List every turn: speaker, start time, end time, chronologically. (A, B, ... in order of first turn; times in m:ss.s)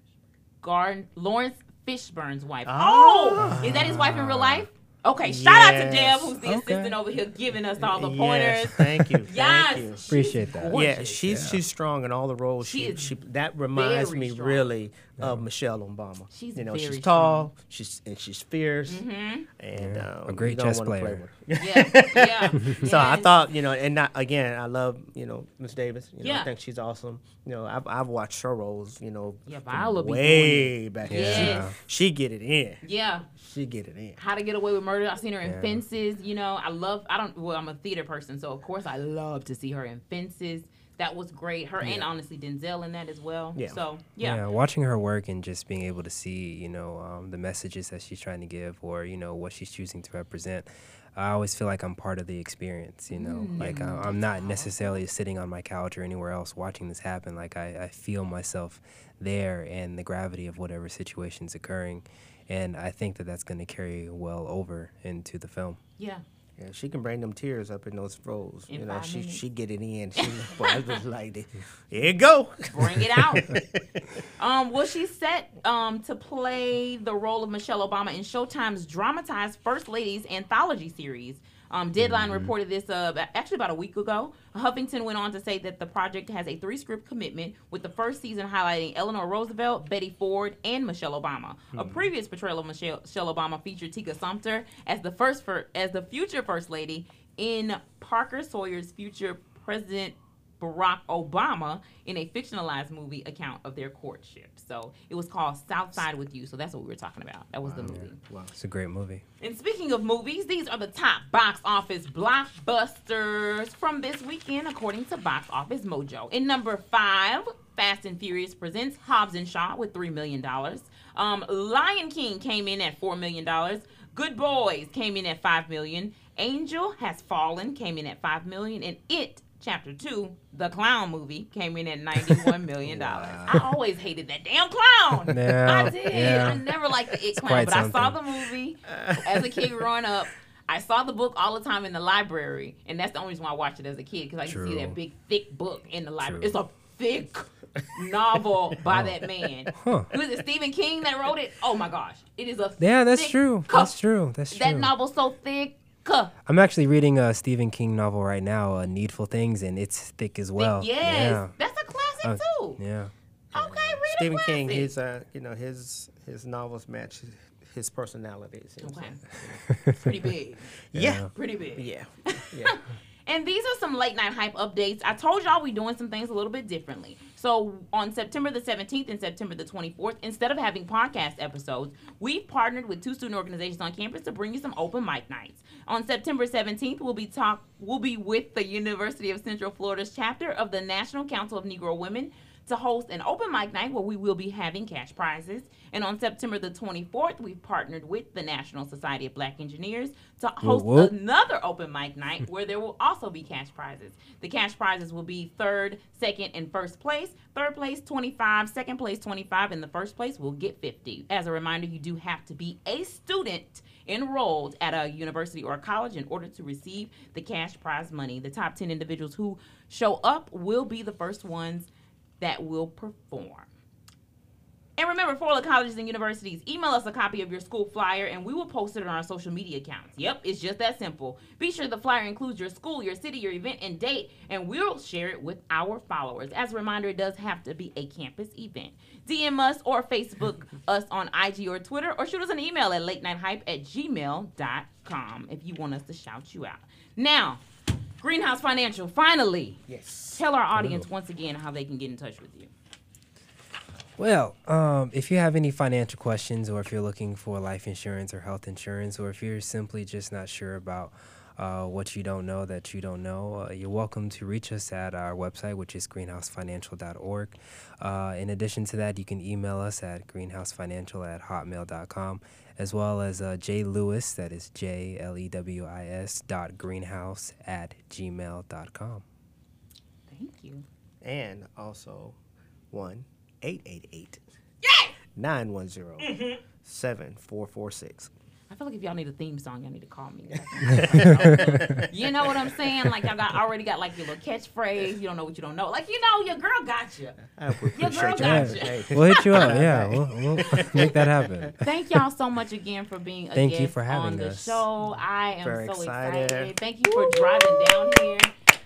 0:00.6-0:11.2 A
0:02.6-0:04.2 B
0:03.4-0:04.6 C
0:05.2-0:06.4 B
0:06.4-0:07.0 C
0:07.8-0:10.1 B
0:08.8-0:09.2 C
0:10.1-0:11.6 C
0:10.7-0:34.2 B
0:12.6-0:13.1 A
0:13.7-0:14.7 A
0:16.3-0:17.5 A
0:18.9-0:19.5 A
0:19.7-0:21.2 C
0:21.6-0:23.3 A
0:26.2-0:26.5 A
0:29.5-0:31.7 A
0:31.1-0:31.8 C
0:32.8-0:33.3 A
0:34.2-0:44.4 A
0:35.4-0:35.8 C
0:41.8-0:42.1 B
0:43.6-0:43.8 B
0:44.2-1:05.8 C
0:53.1-0:55.0 A
1:06.0-1:06.2 A
1:06.6-1:14.2 B
1:08.7-1:09.4 A
1:10.2-1:11.0 A
1:12.7-1:13.6 A
1:14.4-1:48.2 A
1:22.0-1:22.5 C
1:31.7-1:32.1 B
1:47.6-1:48.5 B
1:48.6-1:49.2 C
1:49.4-2:33.9 A
2:12.8-2:13.7 B
2:15.3-2:16.6 C
2:16.1-2:16.5 B
2:17.3-2:18.2 C
2:18.9-2:19.7 B
2:24.4-2:25.0 C
2:26.2-2:26.5 C
2:28.9-2:29.2 C
2:29.7-2:30.1 C
2:32.8-2:34.9 C
2:34.5-2:36.3 A
2:36.4-2:41.6 C
2:40.6-2:42.8 A
2:42.2-2:43.1 C
2:43.5-2:50.3 B
2:43.5-2:44.9 A
2:48.8-2:49.2 A
2:49.9-2:50.8 A
2:50.9-2:52.8 B
2:51.0-2:51.3 C
2:51.3-3:41.9 A
3:20.6-3:21.1 C
3:42.4-3:43.7 A
3:45.0-4:07.6 A
4:08.2-4:12.7 A
4:09.9-4:10.4 B
4:10.8-4:11.1 C
4:14.2-4:39.2 C
4:40.3-4:40.8 A
4:41.2-4:42.4 B
4:42.9-4:44.4 B
4:44.8-4:45.1 A
4:45.4-4:48.3 B
4:46.2-4:46.6 A
4:48.7-4:57.4 A
4:50.7-4:53.2 B
4:51.4-4:52.0 C
4:57.4-5:01.8 B
4:57.9-4:59.7 A
4:58.0-5:01.9 C
5:00.8-5:01.1 A
5:01.8-5:08.5 A
5:03.5-5:04.9 C
5:05.6-5:08.4 B